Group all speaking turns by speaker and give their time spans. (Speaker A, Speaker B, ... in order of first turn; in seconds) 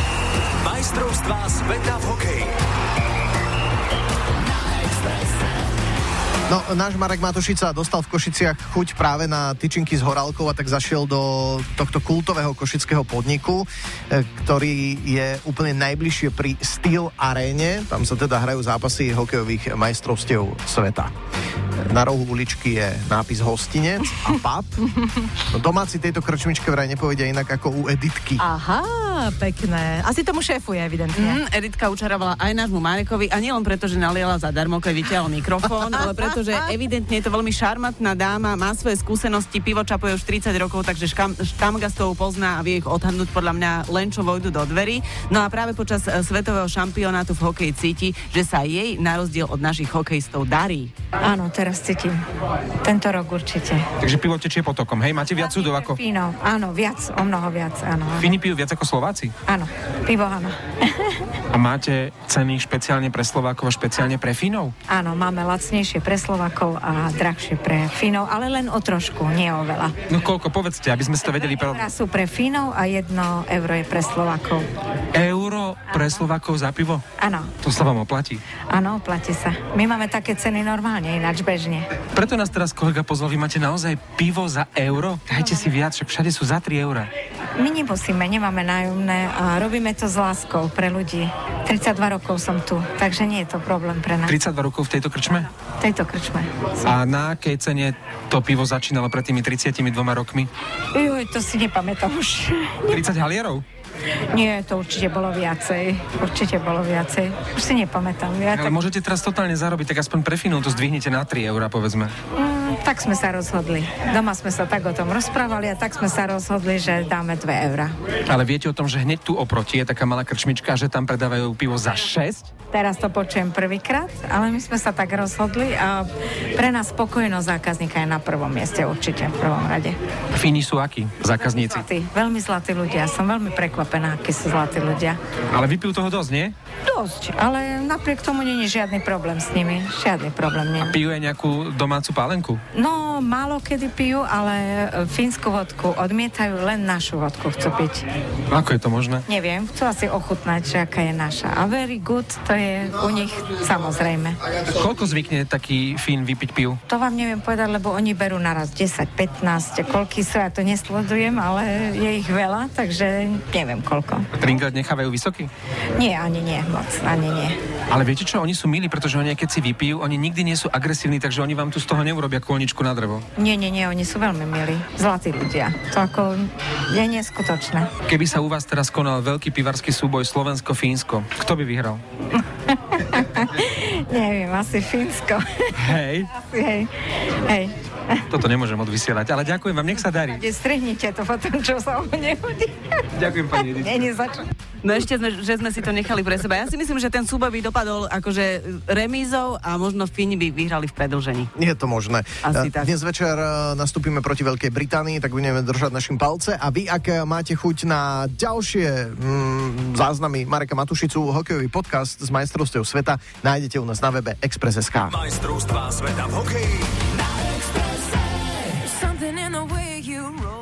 Speaker A: 1.2-2.5, 215.4-216.9
Speaker B: 6.5-21.1, 21.8-24.9, 25.4-28.4, 201.6-215.2
Speaker C: 28.4-31.4, 219.1-220.3
Speaker D: 31.1-50.9, 194.8-201.5, 202.4-202.9
Speaker E: 51.2-52.2, 52.8-53.9, 55.5-58.3, 59.5-61.3, 64.9-69.9, 71.6-74.7, 77.2-77.5, 78.7-81.9, 87.6-94.4, 95.8-96.7, 100.9-103.0, 104.3-108.8, 112.3-117.9, 122.7-130.0, 131.6-135.2, 136.9-141.0, 142.7-148.0, 149.3-154.4, 156.9-164.3, 166.0-167.6, 173.4-177.9, 182.7-185.7, 186.3-188.2, 190.4-193.0, 193.6-194.4
Speaker F: 54.0-56.0, 58.2-59.4, 61.5-64.7, 70.1-71.8, 75.1-77.0, 77.6-78.4, 82.1-87.1, 94.2-95.5, 96.8-100.5, 102.9-103.6, 108.5-112.1, 118.3-122.5, 130.3-131.8, 135.5-136.5, 140.8-142.6, 148.5-149.2, 154.7-156.8, 164.3-165.5, 167.9-173.3, 178.1-182.0, 185.8-186.3, 188.3-190.4, 193.2-194.0